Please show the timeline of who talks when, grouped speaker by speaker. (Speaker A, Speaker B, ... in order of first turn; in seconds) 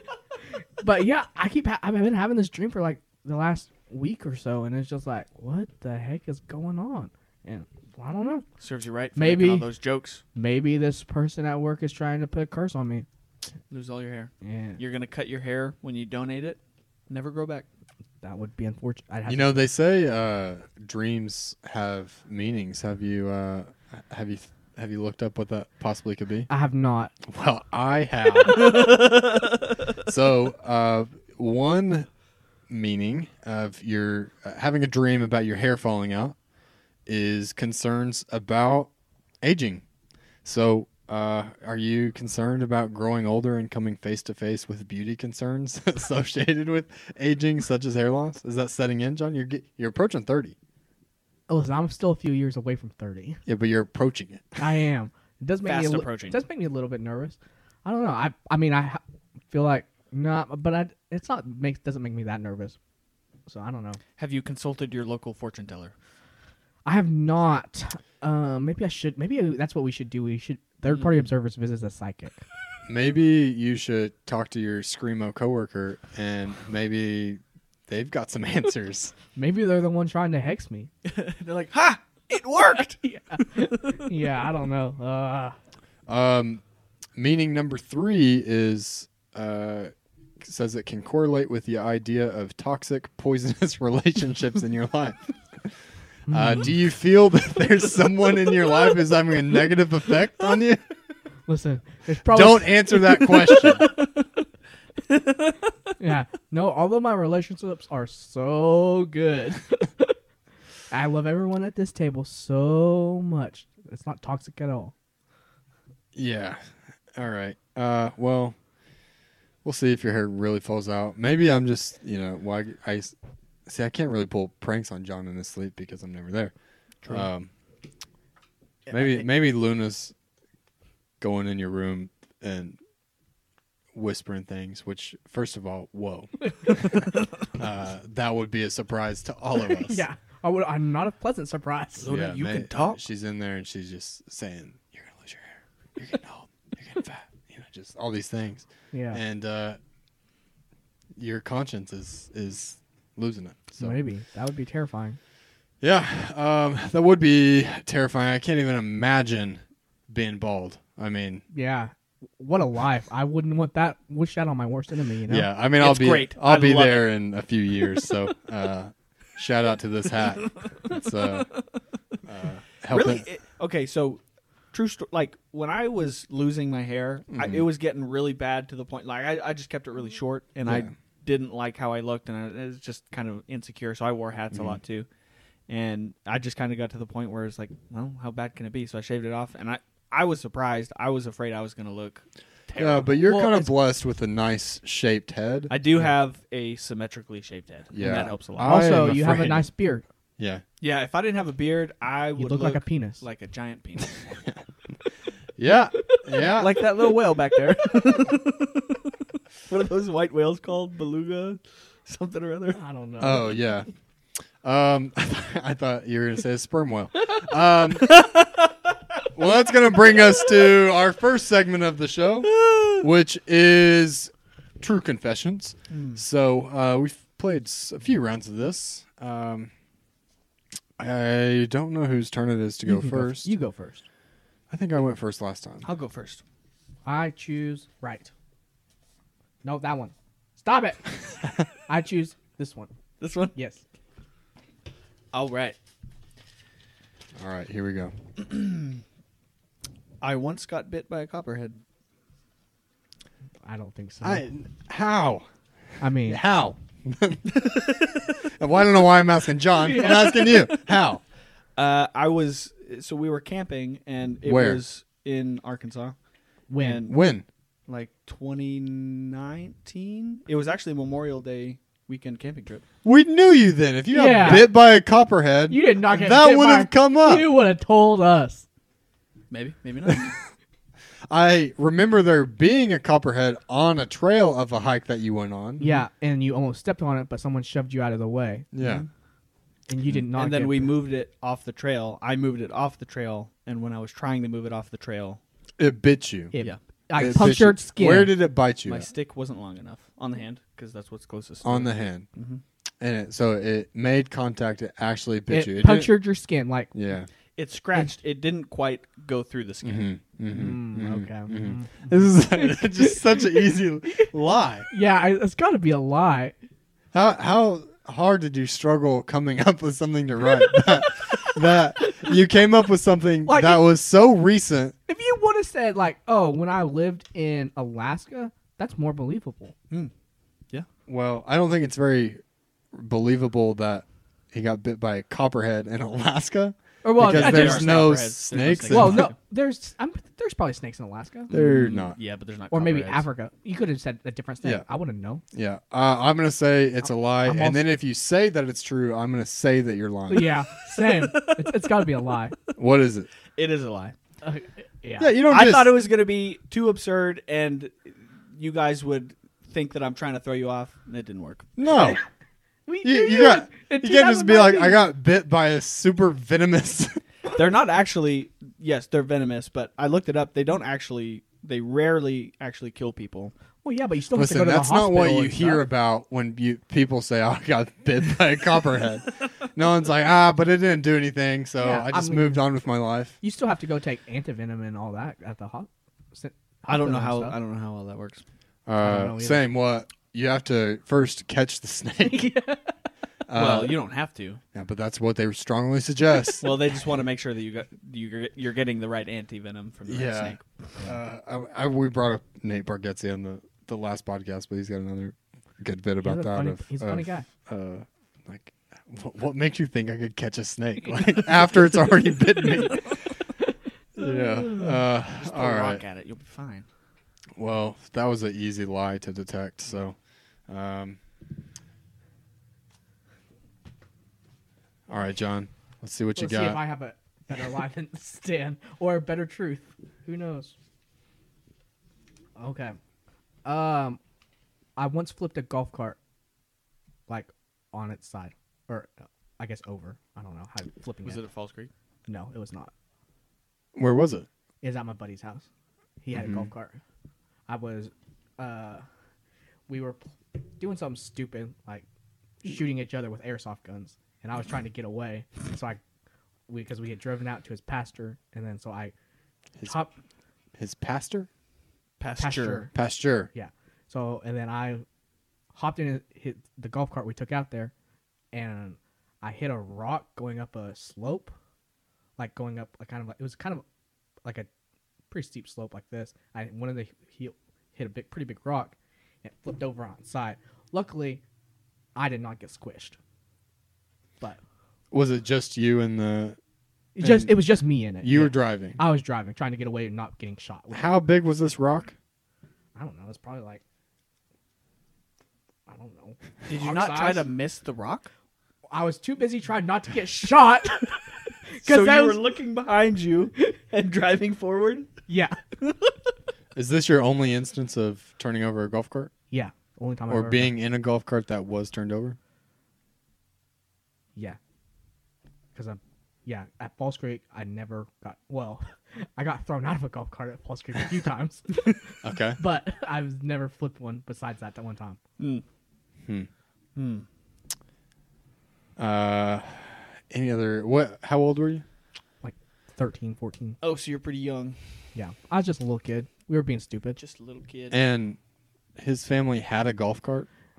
Speaker A: 0.8-8.4, 9.2-9.7, 10.3-13.1, 14.4-14.8, 18.2-19.6, 26.5-27.1, 51.5-53.4, 54.6-62.8, 63.5-64.0, 66.8-72.3, 79.3-80.9, 83.0-85.5, 96.3-96.7, 101.5-103.0, 106.0-110.2, 110.9-114.9, 128.9-129.2, 139.7-142.1, 148.9-149.2, 153.8-155.2, 161.5-165.5, 193.2-193.7, 198.6-200.0, 202.4-203.2, 212.7-213.5, 232.8-234.0, 237.0-238.3, 239.6-241.2, 241.9-242.9, 243.5-243.8, 253.6-254.4, 256.0-256.4, 266.7-267.0, 274.1-274.7, 275.7-278.6, 285.8-288.6, 289.9-290.9, 296.5-298.3, 305.5-306.9, 310.5-313.5, 314.9-316.5, 323.4-323.8, 325.1-329.7, 337.0-338.1, 338.9-341.5, 342.7-345.4, 347.4-347.8, 350.3-352.5, 354.4-355.3, 361.9-362.2, 362.9-365.0, 373.8-375.8, 381.8-382.6, 383.4-387.6, 389.0-389.6, 392.2-392.9, 406.2-407.5, 426.4-430.7, 432.6-433.0, 433.6-434.2, 435.0-436.2, 437.3-441.4, 442.3-442.9, 444.8-445.6, 446.2-447.0, 447.7-449.0, 449.9-452.0, 452.6-456.0, 456.7-459.1, 459.8-460.1, 462.4-462.9, 463.5-465.0, 465.7-467.9, 468.5-471.5, 472.4-473.8, 475.3-481.4, 482.1-483.2, 487.1-491.2, 492.9-493.8, 495.9-497.4, 498.9-502.4, 505.3-505.6, 509.5-510.7, 515.7-522.0, 522.6-525.2, 532.4-533.8, 535.1-537.2
Speaker B: 8.6-10.2, 13.7-17.6, 28.6-29.5, 55.6-56.4, 64.2-65.9, 81.0-83.0, 103.1-104.3, 105.1-105.7, 142.0-143.0, 165.8-167.1, 170.2-171.6, 172.9-174.2, 174.7-185.1, 185.7-193.1, 195.7-199.1, 200.8-204.2, 206.4-209.1, 209.7-212.8, 218.0-219.2, 220.1-220.6, 222.4-223.0, 225.9-226.2, 235.8-236.4, 243.2-243.5, 245.3-245.8, 248.4-249.0, 250.2-251.8, 257.5-258.3, 259.9-260.8, 261.8-266.1, 266.8-267.1, 267.9-272.8, 279.5-280.4, 288.8-289.1, 290.3-295.4, 296.6-297.6, 298.8-302.6, 307.6-310.1, 337.2-339.3, 341.5-343.2, 350.9-351.9, 353.6-354.1, 355.5-361.7, 367.5-373.5, 386.9-388.4, 393.5-394.6, 396.6-400.6, 414.6-416.9, 441.2-441.9, 462.2-462.9, 496.7-498.3, 501.8-505.1, 505.8-506.1, 525.4-525.6, 527.0-527.2, 533.8-534.8, 537.2-538.0
Speaker C: 19.2-26.5, 27.2-28.9, 30.0-32.1, 32.7-36.4, 37.1-38.9, 39.4-39.8, 40.4-50.5, 53.5-54.6, 72.9-79.1, 86.1-86.6, 87.2-95.7, 96.3-100.8, 102.3-103.9, 116.1-118.5, 119.6-123.1, 123.7-126.5, 127.0-127.5, 128.9-130.1, 131.2-132.8, 133.9-140.0, 142.1-149.8, 151.2-153.9, 155.8-161.4, 165.3-171.5, 172.2-173.2, 177.3-177.7, 180.7-180.9, 184.5-184.8, 192.8-195.7, 197.9-199.7, 200.4-200.6, 205.6-206.8, 213.2-213.9, 214.6-218.2, 219.3-229.7, 231.0-233.5, 234.7-235.9, 247.3-248.1, 254.2-255.4, 256.2-257.6, 258.5-261.2, 264.4-264.8, 267.0-267.4, 273.0-277.5, 281.3-285.9, 288.7-289.0, 295.8-296.5, 297.1-299.1, 301.6-302.2, 303.0-306.2, 306.9-307.3, 309.8-314.9, 317.1-324.9, 331.1-332.4, 332.9-339.3, 341.5-342.1, 345.5-350.5, 352.8-353.3, 355.2-355.9, 361.8-362.2, 363.0-367.2, 374.3-383.4, 388.9-392.5, 393.5-394.0, 394.7-396.7, 400.1-413.3, 414.1-416.0, 417.6-420.1, 420.7-421.2, 425.1-426.8, 443.9-444.5, 446.3-446.7, 460.8-461.5, 462.9-463.5, 485.1-486.6, 487.2-487.6, 488.2-489.0, 490.9-492.1, 506.7-509.3, 510.3-512.4, 522.2-522.6, 529.0-531.8, 537.9-538.4, 539.0-540.5